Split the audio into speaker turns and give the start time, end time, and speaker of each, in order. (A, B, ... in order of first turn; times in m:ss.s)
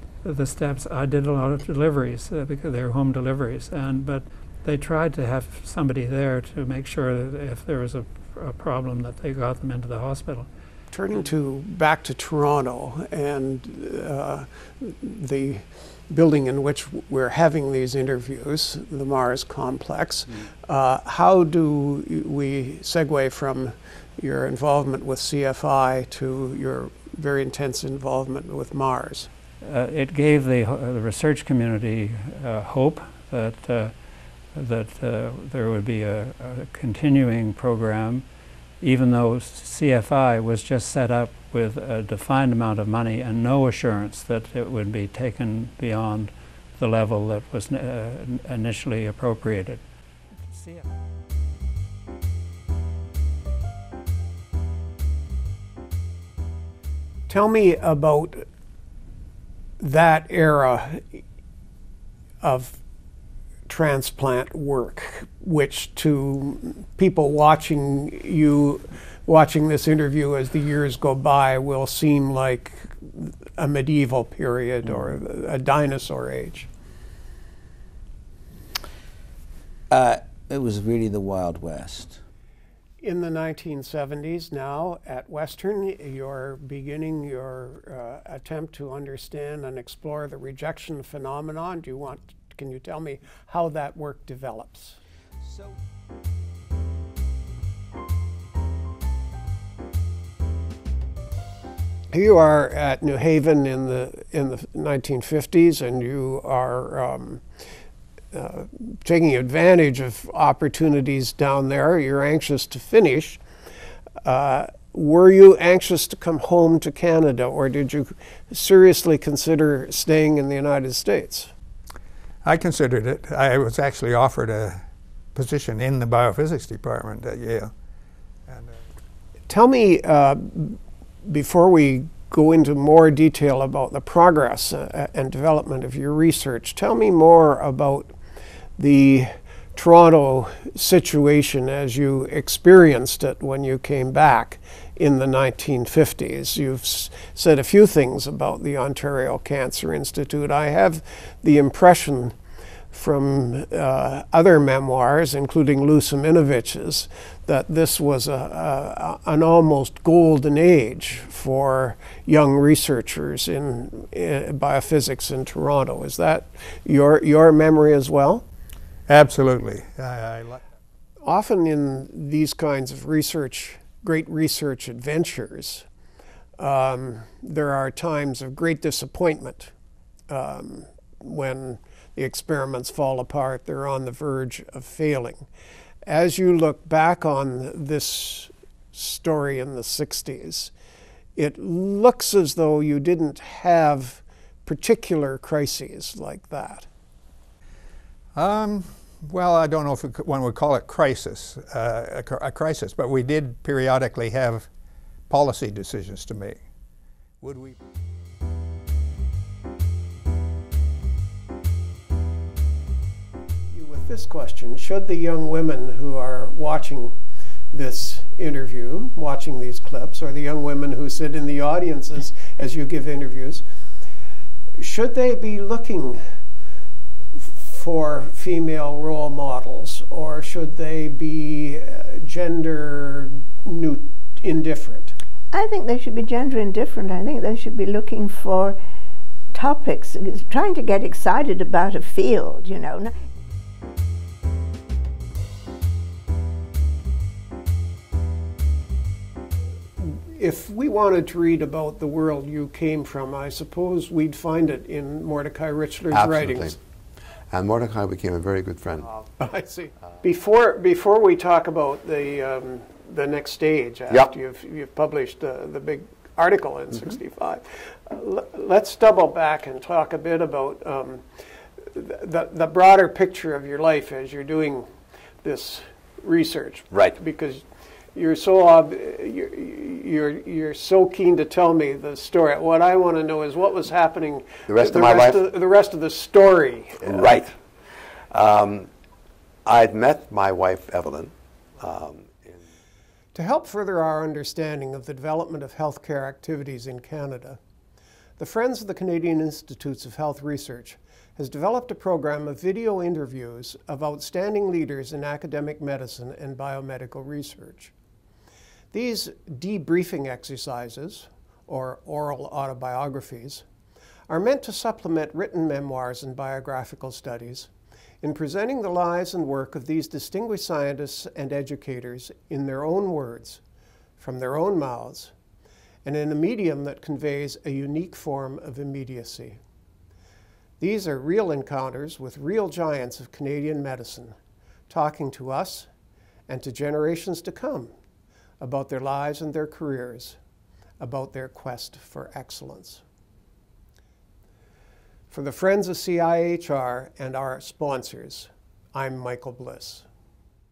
0:00.2-0:10.5 A
0:10.9-0:29.3 B
0:29.6-0:34.0 A
0:34.5-0:38.3 A
0:38.8-0:49.9 A
0:50.5-0:50.9 A
0:57.3-0:58.4 B
0:59.8-1:01.2 B
1:02.4-1:02.8 B
1:03.7-1:16.7 B
1:20.0-1:22.1 C
1:23.0-1:35.0 B
1:42.1-1:47.4 B
1:48.3-1:53.4 B
1:54.2-2:01.5 B
2:02.4-2:04.8 D
2:05.4-2:07.7 D
2:09.5-2:18.2 B
2:18.8-2:32.3 B
2:32.9-2:48.4 B
2:49.1-2:50.6 D
2:51.3-2:55.9 B
2:56.6-2:59.7 B
3:00.3-3:05.5 B
3:06.1-3:10.7 B
3:11.4-3:16.9 B
3:18.4-3:24.7 D
3:25.3-3:26.6 D
3:27.4-3:27.8 D
3:33.7-3:37.2 B
3:37.7-3:43.6 B
3:44.8-3:46.2 B
3:47.4-3:55.2 B
3:55.5-3:58.8 E
3:59.5-4:03.1 E
4:10.0-4:16.8 B
4:16.1-4:16.8 F
4:17.5-4:19.2 F
4:19.4-4:31.2 B
4:31.9-4:34.9 B
4:35.4-4:37.6 B
4:36.9-4:37.2 F
4:38.2-4:47.4 B
4:44.7-4:45.4 F
4:47.0-4:47.6 F
4:48.3-4:48.9 F
4:49.6-4:52.6 F
4:53.3-4:57.6 B
4:58.4-5:07.9 B
5:08.9-5:13.6 B
5:14.3-5:17.7 B
5:18.2-5:23.6 B
5:24.2-5:25.3 B
5:26.0-5:29.6 B
5:30.8-5:34.4 B
5:34.9-5:35.9 B
5:36.5-5:37.9 B
5:38.6-5:40.4 B
5:41.0-5:43.0 B
5:45.3-5:50.0 B